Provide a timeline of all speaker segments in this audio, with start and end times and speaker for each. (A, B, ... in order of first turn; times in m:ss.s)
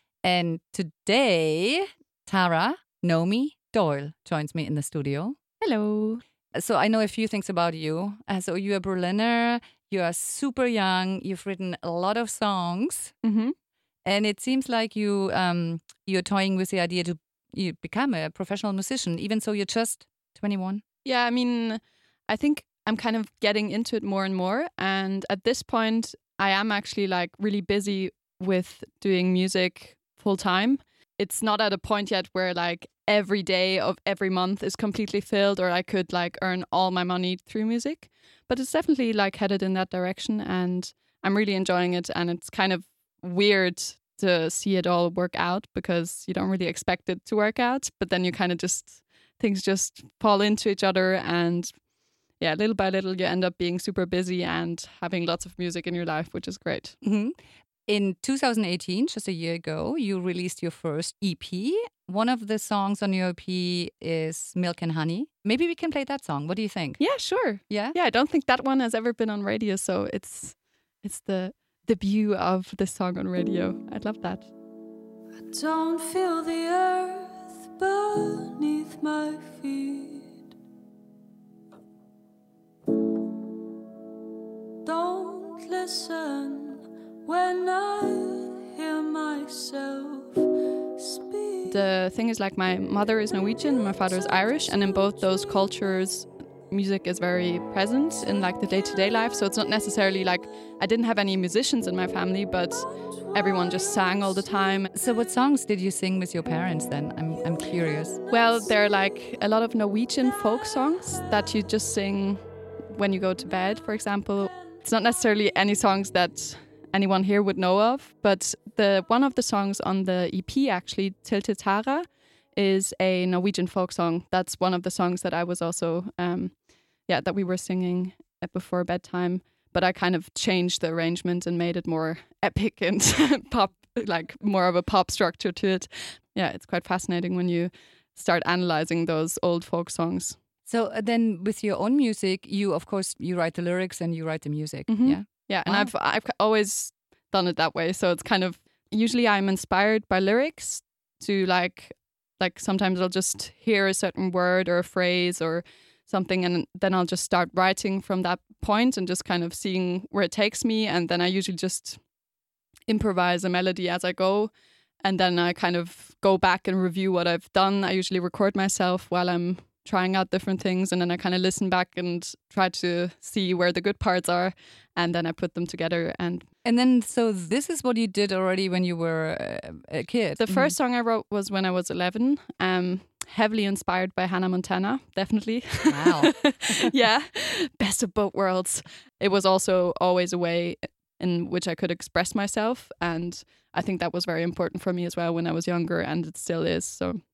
0:00.2-0:05.6 A
0:05.6-0:06.2 B
0:06.5-0:13.2 A
0:13.2-0:13.6 B
0:14.0-0:20.8 A
0:21.0-0:51.7 B
0:52.4-0:57.0 B
0:57.0-0:57.4 A
0:57.9-1:08.0 A
1:07.0-1:14.5 B
1:15.5-1:20.3 C
1:24.8-1:31.8 C
1:31.7-1:45.0 B
1:44.9-1:48.2 A
1:48.3-2:20.4 B
2:20.7-2:25.9 A
2:24.9-2:42.0 B
2:42.9-2:56.5 B
2:56.6-3:00.8 A
3:00.4-3:17.2 B
3:05.9-3:06.5 A